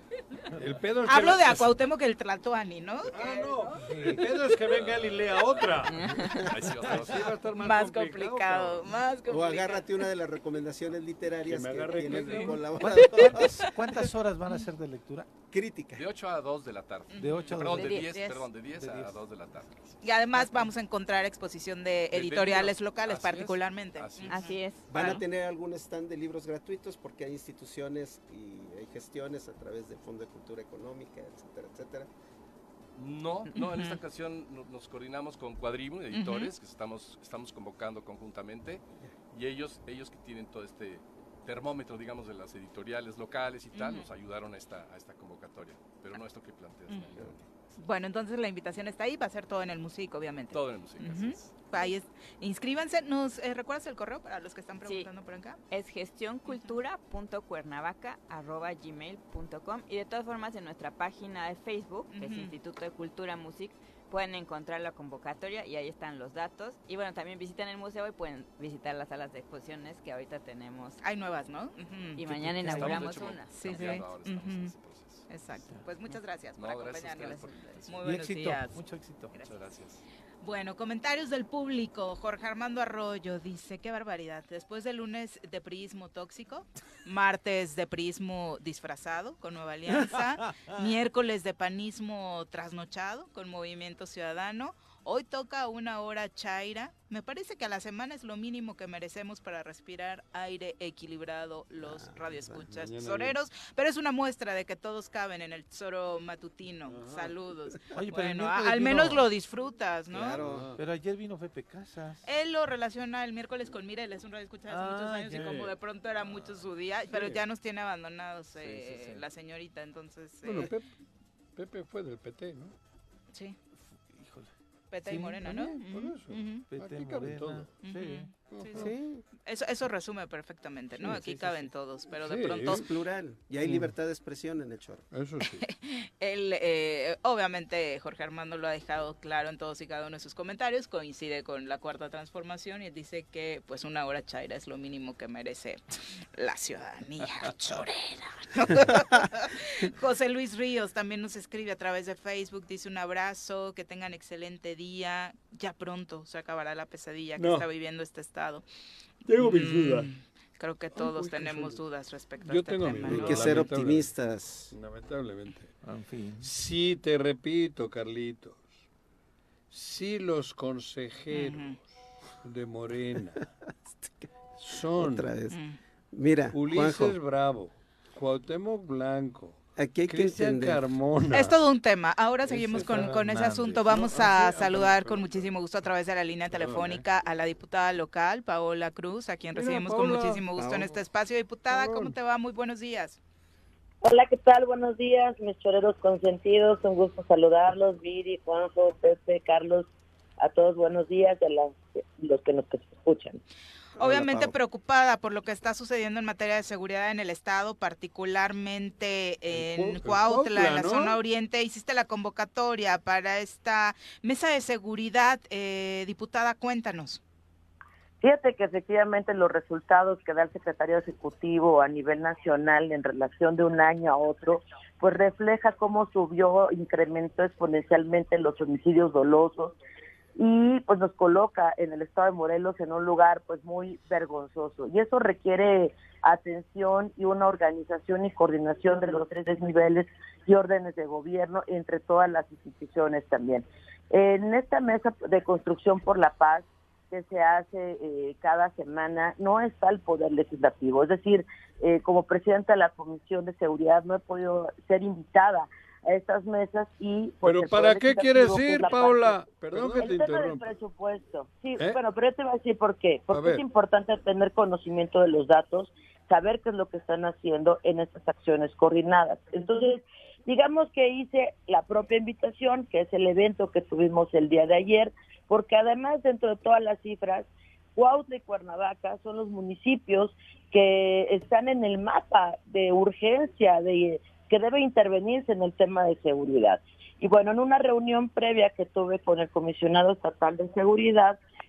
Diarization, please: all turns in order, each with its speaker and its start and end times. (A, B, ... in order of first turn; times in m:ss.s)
0:00.6-0:01.7 A
0:01.1-0:03.7 B
0:03.1-0:06.1 A
0:03.8-0:04.2 C
0:04.7-0:05.8 D
0:05.9-0:06.4 E
0:06.4-0:07.3 D
0:06.9-0:08.9 A
0:07.6-0:09.8 B
0:09.3-0:13.6 F
0:11.4-0:12.6 A
0:12.7-0:15.3 C
0:13.0-0:13.5 B
0:15.5-0:16.0 F
0:16.0-0:20.0 D
0:17.1-0:18.5 B
0:17.1-0:18.1 C
0:18.7-0:19.6 C
0:20.0-0:25.2 B
0:22.1-0:24.5 D
0:24.3-0:24.8 E
0:24.9-0:32.1 F
0:32.9-0:47.5 D
0:33.6-0:34.0 B
0:36.1-0:36.5 B
0:43.7-0:44.1 B
0:47.8-0:55.6 B
0:50.5-0:51.6 D
0:54.8-0:55.1 E
0:55.7-1:11.0 E
0:56.5-0:56.7 B
1:02.1-1:02.5 B
1:11.0-1:14.7 B
1:12.2-1:14.0 E
1:12.3-1:13.0 C
1:12.7-1:15.3 D
1:15.3-1:18.8 B
1:16.6-1:18.1 D
1:18.0-1:19.3 C
1:19.4-1:20.0 D
1:20.4-1:50.4 B
1:41.8-1:42.7 F
1:42.8-1:43.3 A
1:46.8-1:47.3 A
1:47.9-1:49.3 C
1:50.1-1:50.8 A
1:50.4-1:52.2 C
1:52.2-2:00.7 B
1:54.7-1:55.6 C
1:55.3-1:55.7 A
1:57.1-1:57.4 A
1:58.6-1:59.2 C
2:00.4-2:00.8 A
2:01.6-2:02.7 A
2:03.3-2:03.6 B
2:03.8-2:04.5 C
2:04.9-2:06.6 B
2:05.0-2:05.6 C
2:05.5-2:07.7 A
2:06.7-2:08.3 C
2:07.8-2:08.9 B
2:08.5-2:08.9 A
2:08.8-2:09.2 F
2:09.4-2:12.8 B
2:11.0-2:11.7 C
2:12.1-2:12.8 A
2:12.7-2:15.0 F
2:13.6-2:13.9 A
2:15.1-2:15.6 A
2:15.7-2:38.6 B
2:37.4-2:37.7 A
2:39.2-2:40.1 A
2:39.4-2:43.6 B
2:40.9-2:41.8 A
2:42.4-2:44.1 A
2:43.0-2:44.7 F
2:44.7-2:45.7 A
2:45.8-2:46.5 C
2:46.4-2:48.7 A
2:49.7-2:51.8 A
2:51.3-2:51.8 B
2:52.4-2:53.4 A
2:53.9-2:54.2 F
2:54.6-2:55.3 A
2:55.0-2:55.6 F
2:55.5-2:55.8 B
2:56.1-2:57.1 F
2:56.5-3:01.6 A
2:59.8-3:00.8 F
3:01.3-3:13.2 B
3:02.5-3:05.5 A
3:02.8-3:03.9 C
3:06.5-3:07.0 A
3:09.5-3:10.8 A
3:11.7-3:12.1 A
3:14.0-3:19.9 G
3:20.4-3:23.4 G
3:24.0-3:24.5 F
3:24.0-3:37.2 B
3:29.5-3:31.2 A
3:38.2-3:49.8 G
3:50.4-4:19.4 G
4:17.4-4:20.7 A
4:19.9-4:51.4 G
4:23.3-4:23.6 A